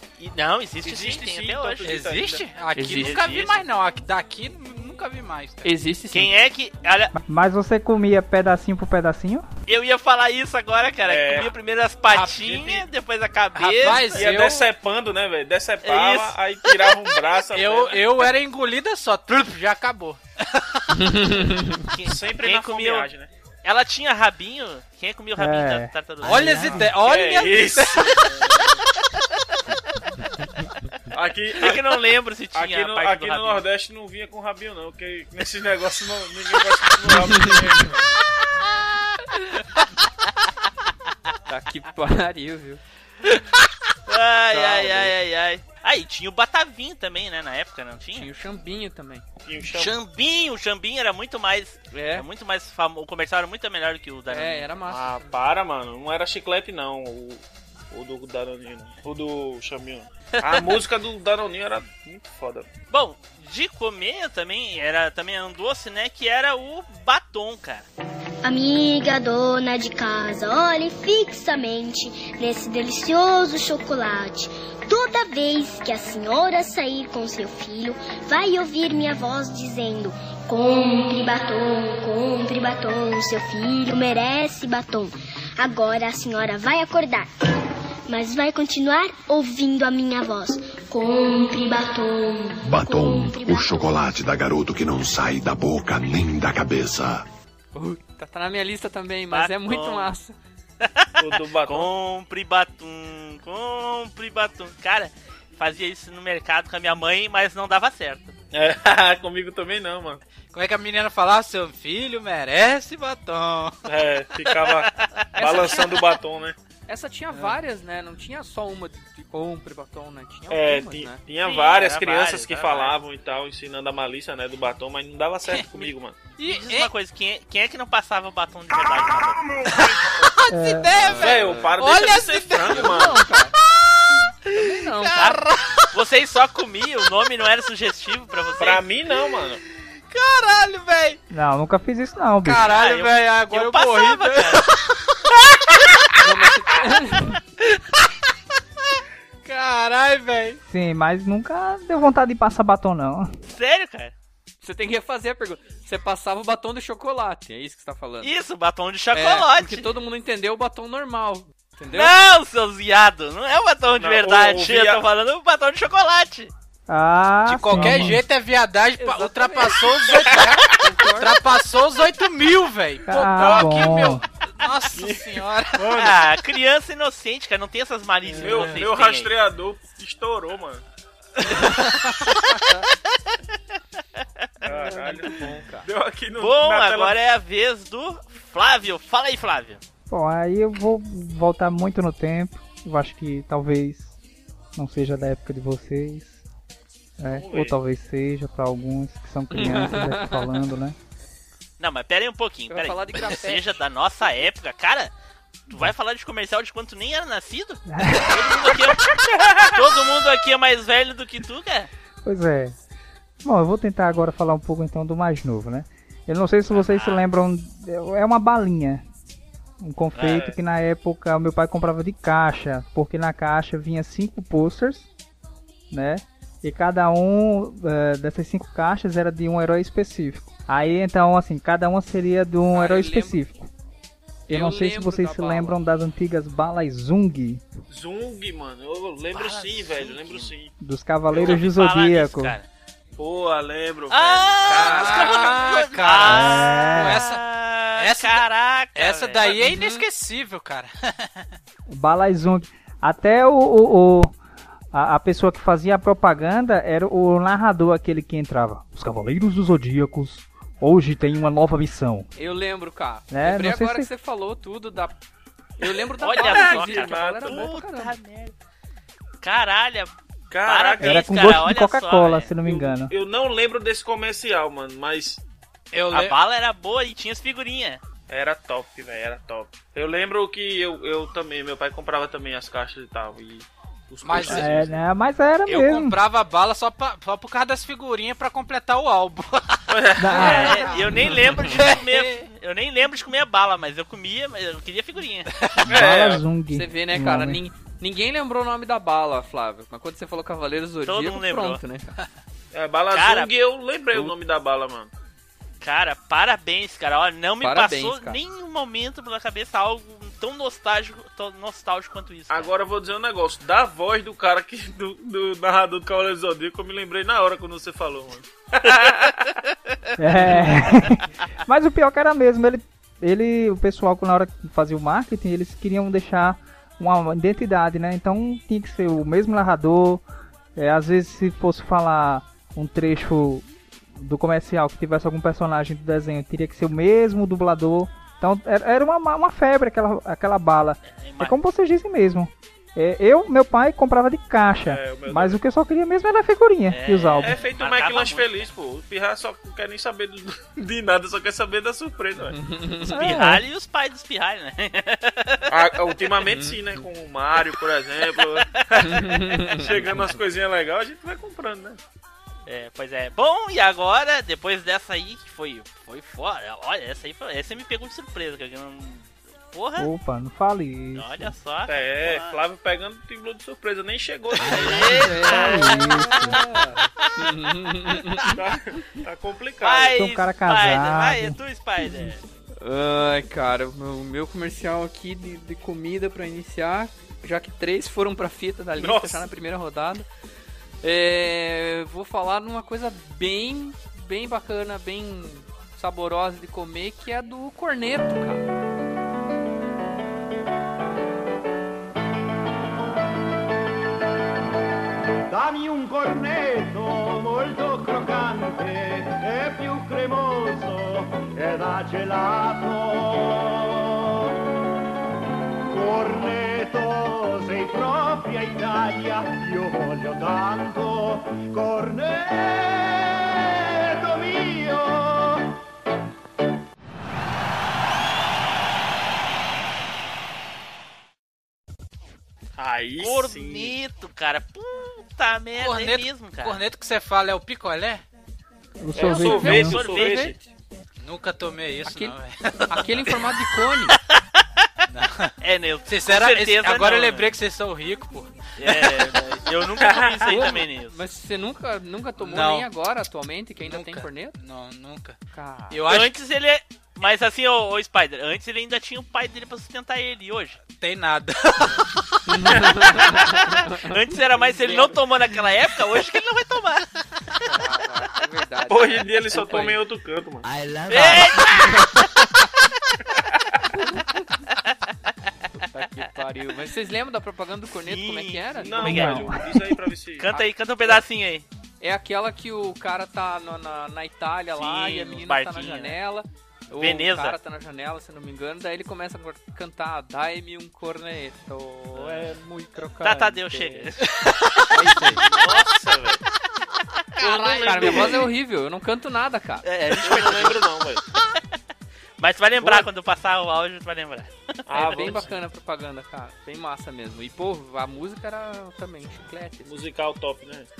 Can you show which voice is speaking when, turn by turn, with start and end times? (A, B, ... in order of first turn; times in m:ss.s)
0:00.2-0:01.9 A
0:00.8-0:02.4 B
0:01.8-0:05.7 C
0:02.7-0:03.2 D
0:03.0-0:03.6 A
0:05.6-0:06.3 D
0:06.1-0:07.1 A
0:07.3-0:09.4 E
0:09.7-0:14.3 A
0:11.0-0:11.5 B
0:12.1-0:12.8 C
0:13.6-0:14.6 C
0:14.1-0:18.1 B
0:15.8-0:17.0 A
0:17.5-0:20.2 C
0:20.9-0:21.8 D
0:21.8-0:23.1 A
0:22.0-0:23.3 B
0:23.6-0:26.9 A
0:25.4-0:25.9 E
0:26.2-0:28.2 C
0:26.6-0:28.8 B
0:31.1-0:31.8 B
0:31.6-0:33.6 A
0:32.5-0:38.2 B
0:41.5-0:42.8 D
0:44.1-0:48.3 A
0:44.5-0:45.1 D
0:48.1-0:49.2 D
0:49.4-0:49.9 B
0:49.7-0:54.7 A
0:51.9-0:52.2 D
0:54.3-0:55.3 D
0:54.9-1:02.7 B
1:00.4-1:00.8 A
1:02.9-1:07.8 A
1:08.4-1:27.3 F
1:28.1-1:33.9 F
1:32.7-1:37.2 G
1:37.7-1:40.4 D
1:39.3-1:40.1 A
1:40.8-1:48.3 A
1:41.2-1:41.9 B
1:48.5-1:50.2 B
1:50.5-1:53.8 C
1:53.9-1:56.6 B
1:54.5-1:54.8 A
1:55.4-1:56.0 D
1:55.5-1:55.8 A
1:56.9-2:01.2 D
2:00.5-2:06.2 B
2:01.4-2:03.0 A
2:06.4-2:06.9 C
2:06.4-2:10.1 A
2:10.5-2:11.1 E
2:10.7-2:13.4 C
2:11.0-2:11.8 D
2:11.1-2:13.2 B
2:12.6-2:13.5 D
2:14.5-2:15.4 D
2:15.1-2:18.8 A
2:18.6-2:19.6 B
2:20.1-2:21.2 C
2:21.3-2:22.7 E
2:22.4-2:24.7 C
2:22.7-2:24.7 A
2:26.2-2:27.4 D
2:29.4-2:30.6 C
2:30.6-2:33.3 E
2:33.4-2:34.1 A
2:34.6-2:38.3 D
2:38.2-2:39.9 A
2:39.1-2:42.2 D
2:41.9-2:46.5 A
2:44.0-2:45.0 B
2:46.9-2:48.2 E
2:47.4-2:55.9 C
2:49.0-2:51.4 D
2:53.1-2:54.2 E
2:55.0-2:56.2 B
2:55.9-2:59.3 A
2:58.3-3:00.8 B
2:58.4-2:58.7 D
3:04.6-3:07.2 B
3:04.7-3:05.8 D
3:06.4-3:09.8 A
3:10.1-3:14.1 E
3:14.7-3:16.4 E
3:17.2-3:21.0 E
3:17.3-3:17.8 B
3:19.5-3:20.5 D
3:21.8-3:25.1 A
3:22.7-3:23.8 D
3:25.7-3:29.0 A
3:27.9-3:28.7 E
3:29.6-3:31.9 A
3:32.2-3:32.8 E
3:33.4-3:39.0 E
3:36.7-3:37.3 A
3:39.8-3:45.0 E
3:40.2-3:40.5 B
3:45.9-3:53.7 E
3:52.7-3:53.4 D
3:54.5-3:55.8 D
3:54.5-3:57.6 E
3:57.9-4:00.7 B
3:59.3-4:00.5 A
4:00.8-4:02.6 E
4:01.3-4:02.6 A
4:03.2-4:05.6 B
4:04.1-4:09.8 A
4:04.7-4:07.4 C
4:06.3-4:07.2 E
4:08.0-4:08.4 C
4:08.9-4:11.5 C
4:09.6-4:10.0 D
4:11.9-4:14.4 E
4:14.9-4:22.3 E
4:22.4-4:25.2 D
4:23.3-4:24.1 E
4:25.8-4:28.2 D
4:26.2-4:28.5 A
4:26.4-4:27.7 B
4:29.4-4:30.1 A
4:30.5-4:31.6 B
4:30.6-4:32.5 A
4:31.0-4:33.1 E
4:32.6-4:35.4 B
4:35.9-4:36.3 C
4:36.1-4:38.0 A
4:38.3-4:45.0 B
4:44.2-4:44.8 C
4:44.4-4:46.2 E
4:45.7-4:49.8 C
4:49.9-4:50.7 B
4:50.2-4:50.8 E
4:50.3-4:55.8 A
4:50.3-4:52.4 C
4:51.1-4:51.7 D
4:55.8-4:57.6 E
4:55.9-4:56.4 B
4:56.7-5:02.1 D
5:01.0-5:01.8 A
5:02.7-5:05.1 B
5:03.1-5:03.5 A
5:05.8-5:12.7 A
5:07.6-5:08.4 D
5:12.5-5:19.3 B
5:18.8-5:19.3 A
5:20.2-5:30.2 E
5:30.8-5:47.5 E
5:41.0-5:41.6 A
5:44.8-5:45.6 B
5:46.9-5:48.7 A
5:47.4-5:52.6 B
5:52.5-5:53.3 D
5:53.1-5:55.7 A
5:53.1-5:53.6 E
5:55.7-6:02.0 B
5:58.4-5:59.2 A
5:59.0-6:00.2 D
6:02.6-6:10.1 A
6:10.0-6:11.5 E
6:11.1-6:12.6 A
6:11.9-6:15.4 B
6:14.6-6:16.3 A
6:14.7-6:18.5 D
6:15.1-6:16.6 E
6:18.5-6:20.1 B
6:19.8-6:22.4 A
6:20.1-6:21.6 E
6:22.8-6:30.2 D
6:29.0-6:29.4 B
6:31.0-6:38.6 D
6:45.5-6:54.4 H
6:55.9-7:05.6 H
7:12.8-7:16.8 A
7:12.8-7:14.0 B
7:15.8-7:18.2 C
7:19.0-7:20.0 E
7:19.1-7:20.6 B
7:19.2-7:20.6 A
7:19.2-7:20.6 D
7:21.2-7:22.9 C
7:22.0-7:24.2 D
7:25.1-7:25.5 C
7:25.6-7:27.5 A
7:26.1-7:28.6 C
7:28.8-7:31.2 A
7:30.0-7:30.6 B
7:30.5-7:34.5 D
7:32.4-7:32.9 C
7:33.8-7:35.4 C
7:35.5-7:36.0 D
7:35.9-7:36.4 C
7:36.0-7:40.8 A
7:40.9-7:42.1 C
7:42.5-7:45.1 D
7:43.2-7:47.2 A
7:47.6-7:50.0 D
7:48.9-7:50.6 B
7:51.0-7:52.2 D
7:51.1-7:52.0 A
7:55.8-7:59.3 D
7:58.0-7:59.4 A
7:58.8-8:00.6 B
7:59.0-7:59.7 E
8:00.4-8:01.6 A
8:02.0-8:14.1 D
8:04.8-8:06.2 A
8:07.0-8:07.6 A
8:12.1-8:12.5 A
8:13.2-8:15.9 A
8:14.9-8:15.4 D
8:15.3-8:16.4 B
8:17.4-8:18.4 A
8:17.4-8:19.8 D
8:17.4-8:18.5 B
8:19.8-8:20.9 A
8:20.2-8:21.2 B
8:22.4-8:25.4 A
8:24.9-8:25.5 B
8:24.9-8:29.9 D
8:29.8-8:30.9 B